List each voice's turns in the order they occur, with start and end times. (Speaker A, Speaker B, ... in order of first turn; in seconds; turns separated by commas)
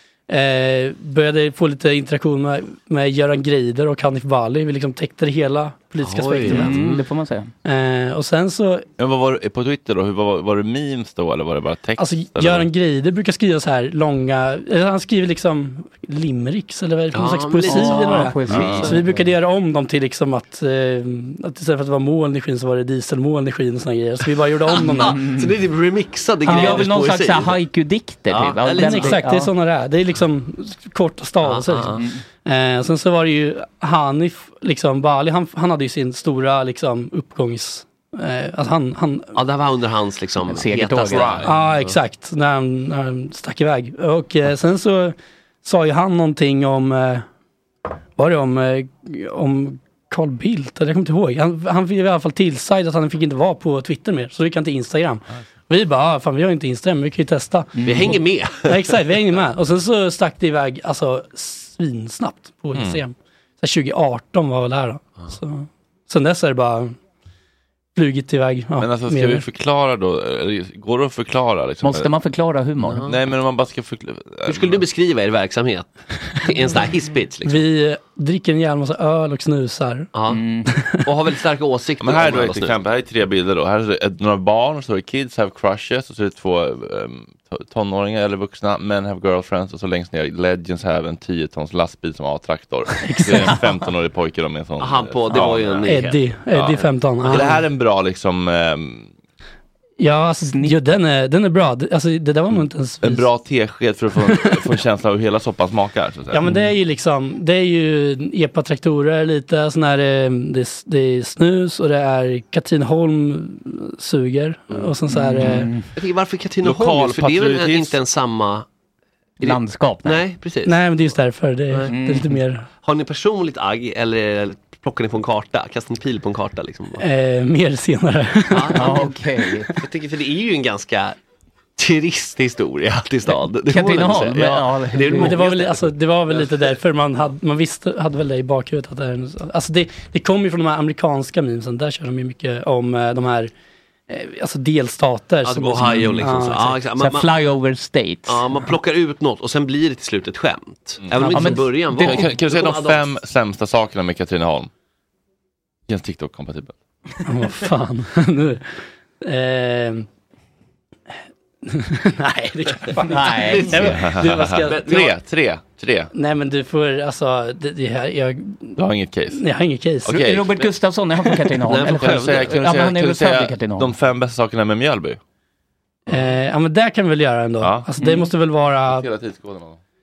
Speaker A: 0.3-6.7, Speaker B: 6.0-7.0, Speaker C: 6.5-7.5, Speaker A: 7.6-8.8, Speaker D: 9.0-12.7, Speaker A: 12.0-25.2, Speaker B: 17.1-18.8, Speaker C: 17.6-19.3, Speaker D: 18.5-18.9, Speaker B: 24.7-27.6, Speaker C: 24.8-25.5, Speaker A: 26.4-26.9, Speaker C: 26.5-29.5, Speaker B: 28.3-29.2, Speaker A: 28.8-39.3, Speaker B: 31.4-32.0, Speaker C: 31.9-32.2, Speaker B: 39.3-42.0, Speaker C: 40.5-41.5, Speaker D: 41.0-41.6, Speaker A: 41.4-47.2, Speaker A: 48.2-66.9, Speaker C: 57.8-58.2, Speaker B: 57.8-58.9, Speaker D: 62.7-63.0, Speaker A: 68.0-69.5, Speaker D: 68.8-72.1, Speaker C: 71.8-73.0, Speaker B: 72.8-73.2, Speaker D: 73.0-74.8, Speaker B: 74.5-77.6, Speaker A: 77.5-80.1, Speaker B: 80.1-80.4, Speaker C: 80.3-80.7, Speaker A: 80.7-81.0, Speaker B: 81.0-82.8, Speaker D: 82.0-95.9, Speaker A: 93.0-93.7, Speaker B: 94.8-97.5, Speaker A: 95.8-97.6, Speaker D: 96.5-99.1, Speaker A: 100.0-103.3, Speaker D: 103.0-106.4, Speaker A: 104.2-104.6, Speaker A: 106.3-115.7, Speaker B: 114.7-114.9, Speaker C: 115.1-115.8, Speaker B: 115.9-118.7, Speaker D: 116.6-118.0, Speaker C: 119.4-120.2, Speaker B: 119.4-121.1, Speaker A: 120.6-122.7, Speaker C: 121.9-122.4, Speaker B: 122.8-127.0, Speaker A: 127.0-128.9, Speaker B: 128.5-129.1, Speaker C: 128.7-129.7, Speaker B: 129.7-131.2, Speaker B: 131.8-136.8, Speaker C: 133.3-135.3, Speaker A: 135.1-143.5, Speaker A: 144.1-146.7, Speaker B: 145.4-147.3, Speaker C: 145.8-146.4, Speaker C: 147.0-148.4, Speaker B: 148.3-153.2, Speaker D: 151.0-151.3, Speaker C: 151.2-152.3, Speaker D: 152.0-154.7, Speaker D: 155.9-156.7, Speaker A: 157.2-160.1, Speaker A: 161.6-164.9, Speaker C: 163.1-163.9, Speaker B: 163.2-163.9, Speaker D: 163.8-166.1, Speaker B: 164.6-165.1, Speaker A: 166.1-168.7, Speaker D: 168.8-169.4, Speaker A: 169.3-170.2, Speaker D: 170.0-170.4, Speaker C: 170.2-173.9, Speaker B: 171.6-172.6, Speaker D: 171.9-175.2, Speaker A: 176.1-179.1, Speaker D: 176.1-176.3, Speaker D: 177.6-177.9, Speaker C: 178.0-178.3, Speaker D: 178.9-179.8